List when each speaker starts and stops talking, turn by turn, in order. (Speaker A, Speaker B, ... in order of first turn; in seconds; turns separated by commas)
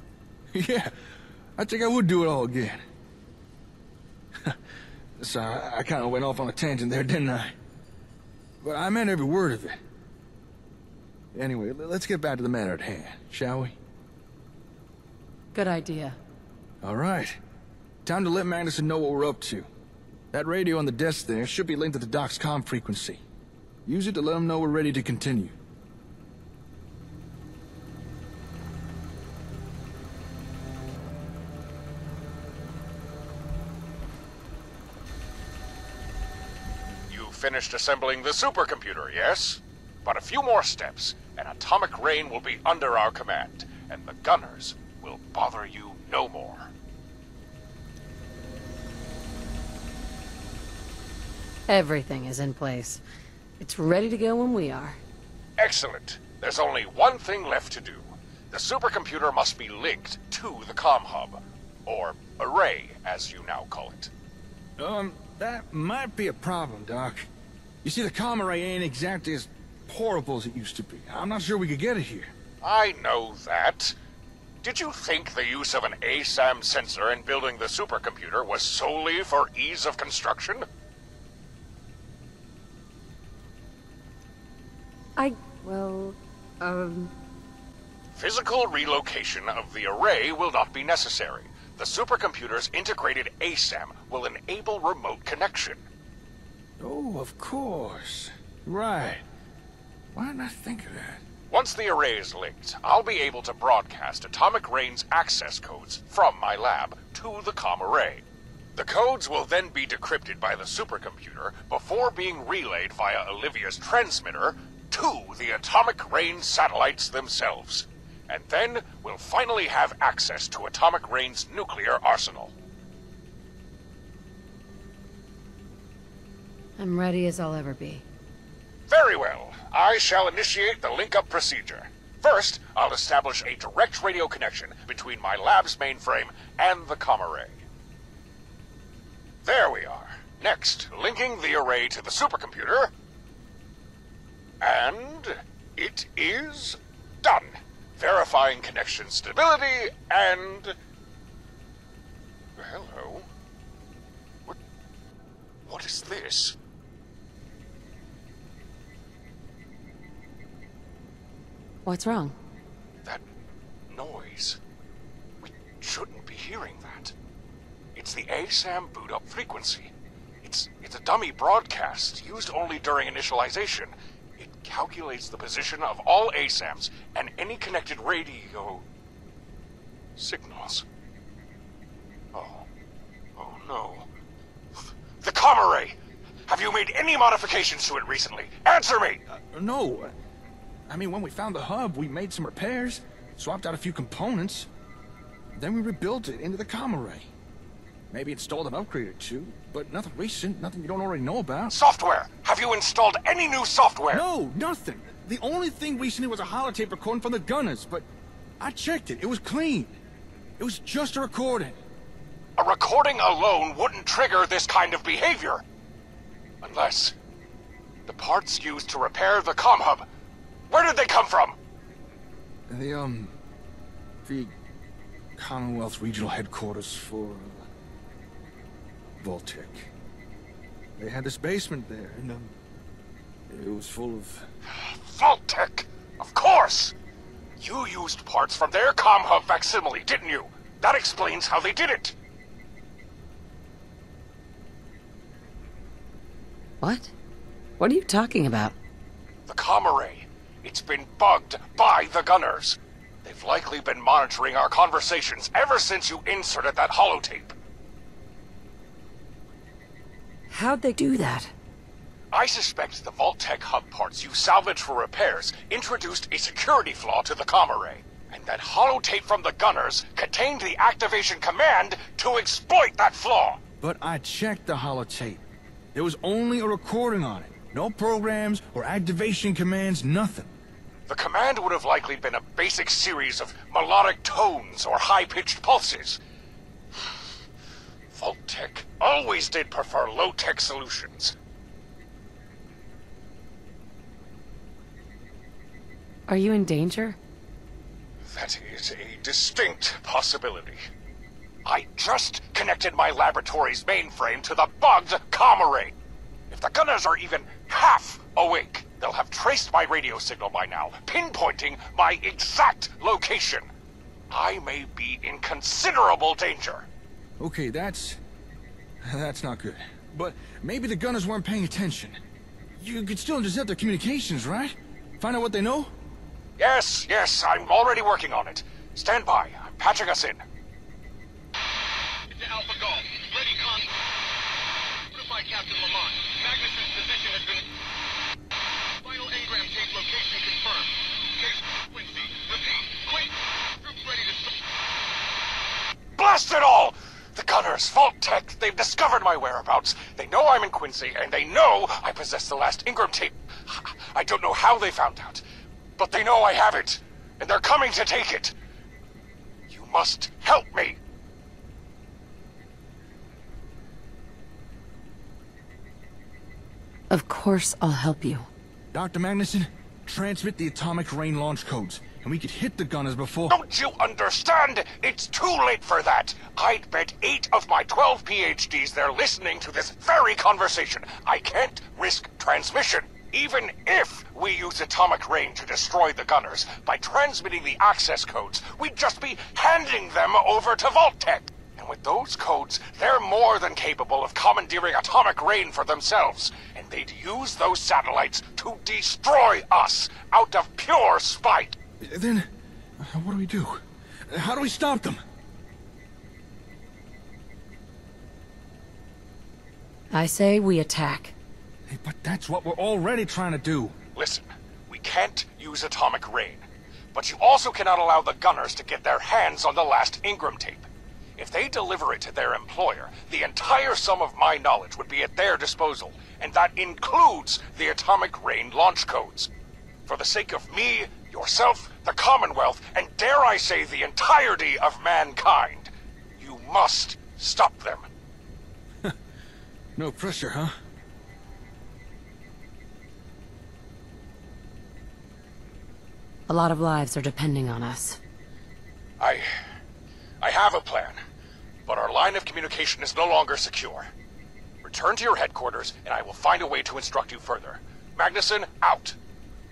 Speaker A: 0.5-2.8, Speaker A: 5.2-7.5, Speaker A: 8.6-9.8, Speaker A: 11.3-13.8, Speaker B: 15.5-16.2, Speaker A: 16.8-17.4, Speaker A: 18.0-19.7, Speaker A: 20.3-23.2, Speaker A: 23.9-25.6, Speaker C: 37.1-46.7, Speaker B: 51.7-53.0, Speaker B: 53.6-55.0, Speaker C: 55.6-64.1, Speaker A: 64.8-67.3, Speaker A: 67.8-72.3, Speaker C: 72.6-74.0, Speaker C: 74.6-80.7, Speaker B: 85.2-87.1, Speaker C: 88.1-95.9, Speaker A: 96.8-99.2, Speaker A: 100.1-101.2, Speaker C: 101.5-122.5, Speaker B: 126.8-128.1, Speaker C: 128.9-137.6, Speaker C: 139.4-142.9, Speaker C: 144.6-150.8, Speaker C: 152.6-153.3, Speaker C: 155.7-156.6, Speaker B: 161.9-162.4, Speaker C: 163.9-164.6, Speaker C: 165.4-167.2, Speaker C: 167.9-178.9, Speaker C: 180.2-180.9, Speaker C: 182.3-182.7, Speaker C: 183.4-184.1, Speaker C: 185.2-186.0, Speaker C: 186.5-189.2, Speaker A: 189.3-190.2, Speaker A: 190.9-194.7, Speaker A: 195.6-197.3, Speaker A: 198.1-201.8, Speaker C: 201.7-204.2, Speaker A: 204.1-208.1, Speaker A: 208.6-210.0, Speaker A: 210.6-211.8, Speaker C: 212.6-215.6, Speaker C: 216.6-217.2, Speaker C: 218.1-220.1, Speaker C: 220.7-221.6, Speaker A: 222.7-223.3, Speaker A: 224.2-224.5, Speaker A: 225.4-227.7, Speaker A: 229.2-229.9, Speaker A: 231.0-232.6, Speaker A: 233.5-234.5, Speaker C: 234.7-236.9, Speaker C: 237.6-242.2, Speaker B: 246.8-247.1, Speaker B: 247.8-248.8, Speaker C: 249.5-257.6, Speaker B: 260.5-261.5, Speaker C: 262.3-273.6, Speaker A: 273.8-275.4, Speaker A: 275.9-280.5, Speaker C: 281.1-286.2, Speaker C: 288.1-291.4, Speaker B: 296.3-297.2, Speaker C: 298.2-300.8, Speaker C: 301.6-305.9, Speaker C: 306.5-313.7, Speaker C: 314.3-316.9, Speaker A: 317.4-318.2, Speaker A: 319.0-322.2, Speaker A: 322.8-325.9, Speaker C: 326.6-330.4, Speaker D: 332.3-334.0, Speaker D: 335.1-337.7, Speaker D: 339.0-344.6, Speaker C: 346.2-355.4, Speaker C: 356.0-358.6, Speaker C: 359.7-361.0, Speaker B: 367.1-368.5, Speaker A: 368.9-373.6, Speaker C: 373.5-401.8, Speaker A: 402.0-405.2, Speaker B: 410.1-411.4, Speaker A: 411.9-414.0, Speaker C: 414.1-429.5, Speaker C: 430.1-438.1, Speaker A: 440.0-440.7, Speaker B: 446.5-448.2, Speaker C: 449.2-449.5, Speaker C: 450.4-451.2, Speaker C: 451.9-454.1, Speaker C: 454.8-459.2